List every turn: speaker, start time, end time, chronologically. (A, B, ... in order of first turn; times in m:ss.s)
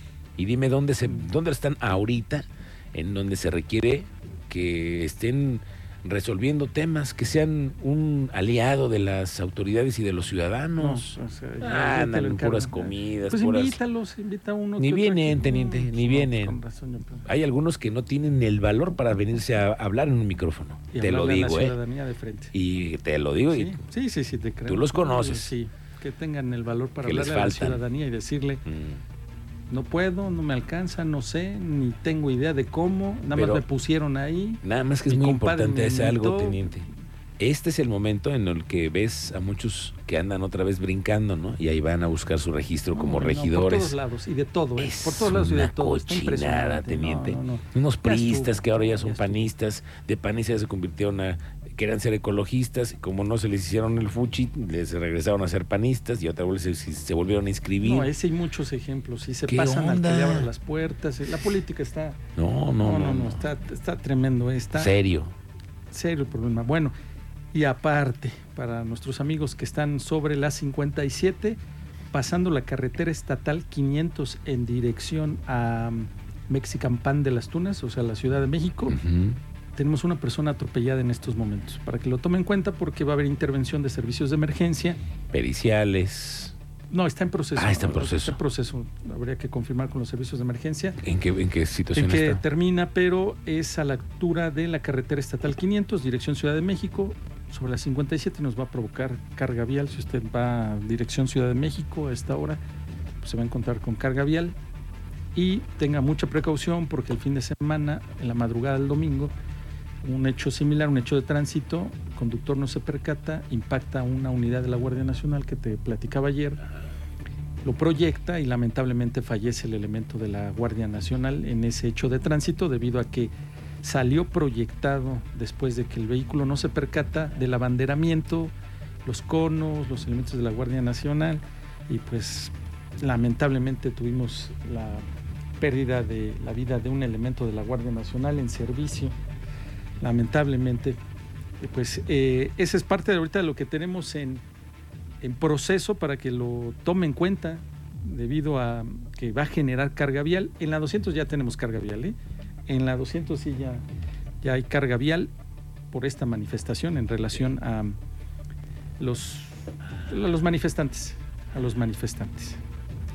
0:00.4-0:13.8 A
0:10.8-0:17.3 B
0:14.8-0:16.6 A
0:17.2-0:21.8 A
0:20.9-0:22.5 B
0:22.5-0:23.8 A
0:23.5-0:28.6 B
0:24.7-0:25.5 A
0:27.0-0:27.8 A
0:28.6-0:29.0 A
0:29.7-0:36.6 B
0:33.3-0:33.6 A
0:34.6-0:36.9 A
0:37.4-0:44.0 A
0:42.9-0:49.4 B
0:44.8-0:58.1 A
0:57.8-1:02.2 B
0:59.5-1:00.5 A
1:02.4-1:03.4 A
1:02.8-1:04.9 B
1:04.7-1:05.3 A
1:05.9-1:06.9 B
1:07.5-1:11.6 B
1:12.1-1:19.0 B
1:18.9-1:19.4 A
1:19.8-1:25.0 B
1:25.3-1:26.5 A
1:26.9-1:31.0 B
1:27.6-1:28.4 A
1:31.0-1:32.4 A
1:31.9-1:42.6 B
1:43.2-1:44.6 B
1:45.3-1:49.3 B
1:50.0-1:56.6 B
1:57.6-2:15.0 B
2:15.6-2:19.1 B
2:20.0-2:21.0 B
2:21.6-2:24.4 B
2:25.2-2:32.2 B
2:32.7-2:33.8 B
2:34.4-2:35.3 B
2:35.9-2:38.0 B
2:39.0-2:42.6 B